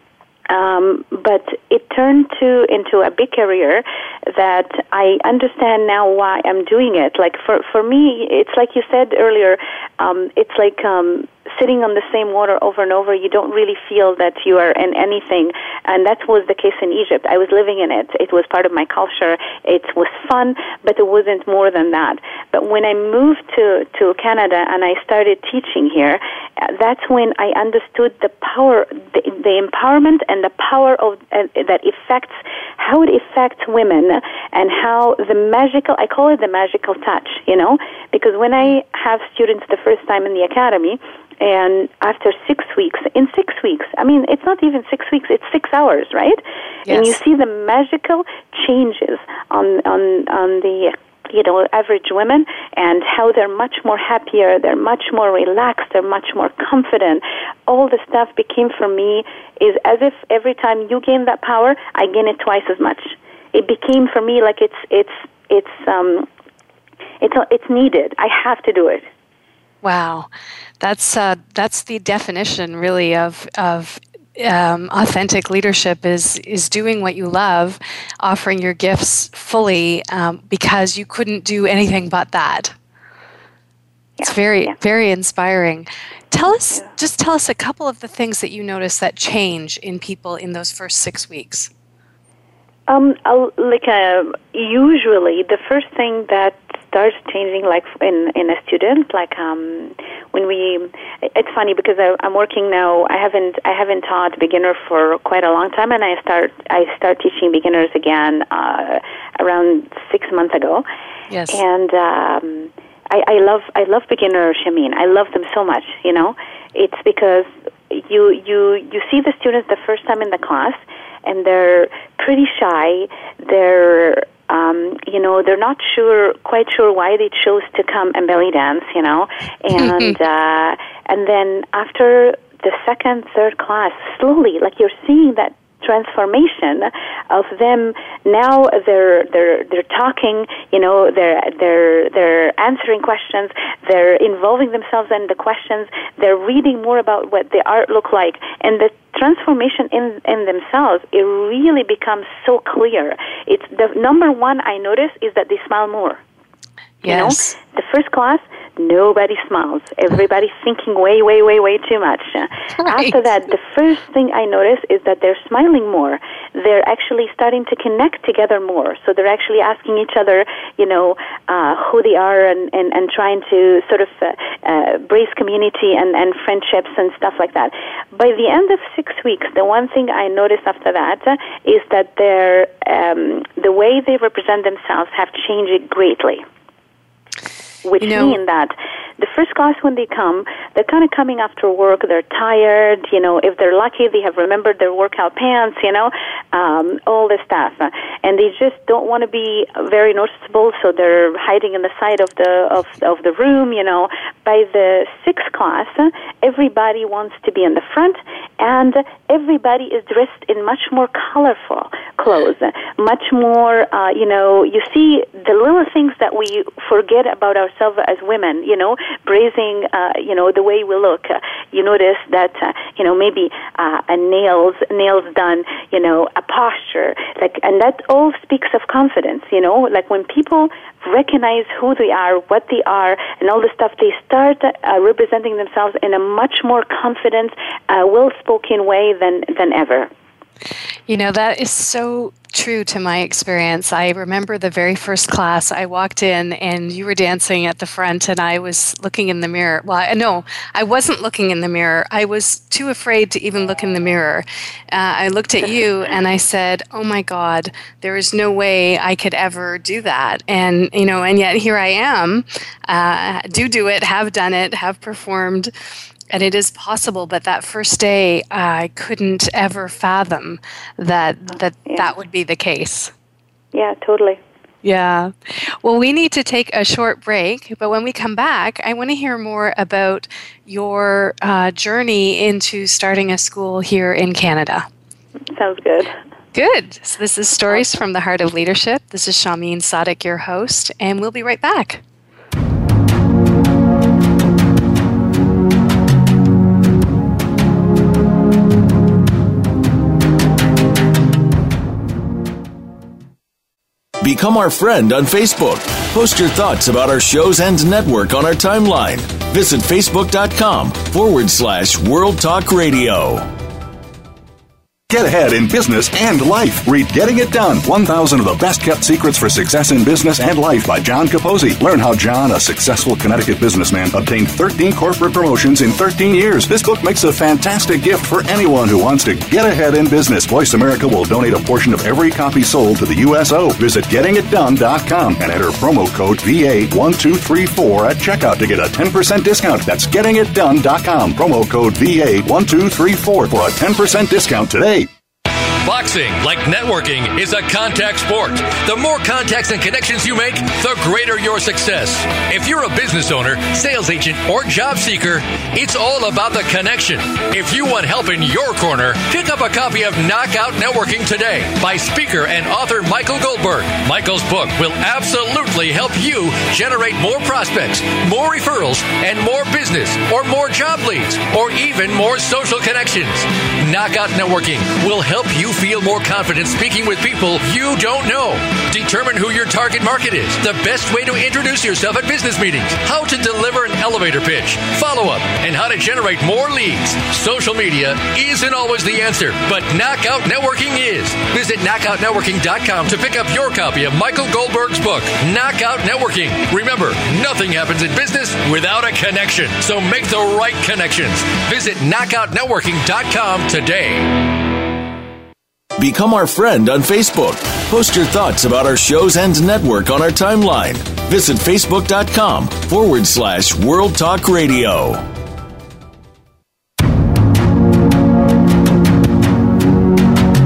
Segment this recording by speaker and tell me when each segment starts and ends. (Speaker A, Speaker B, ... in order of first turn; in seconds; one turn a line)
Speaker A: 0.5-66.3
Speaker B: 46.9-47.2
Speaker A: 67.2-69.0
Speaker B: 69.8-82.7
Speaker A: 84.2-84.7
Speaker B: 84.2-91.7
Speaker A: 92.9-110.8
Speaker B: 111.3-111.6
Speaker A: 111.5-156.2
Speaker B: 129.8-130.2
Speaker B: 157.0-157.4
Speaker A: 157.0-186.4
Speaker B: 162.8-163.2
Speaker A: 187.8-240.1
Speaker B: 188.0-188.4
Speaker B: 241.1-265.7
Speaker B: 266.3-273.1
Speaker A: 273.7-274.4
Speaker B: 274.8-284.9
Speaker A: 285.5-286.1
Speaker B: 286.5-292.0
Speaker C: 304.2-313.5
Speaker D: 315.1-345.1
Speaker E: 345.8-404.6
Speaker C: 406.0-415.2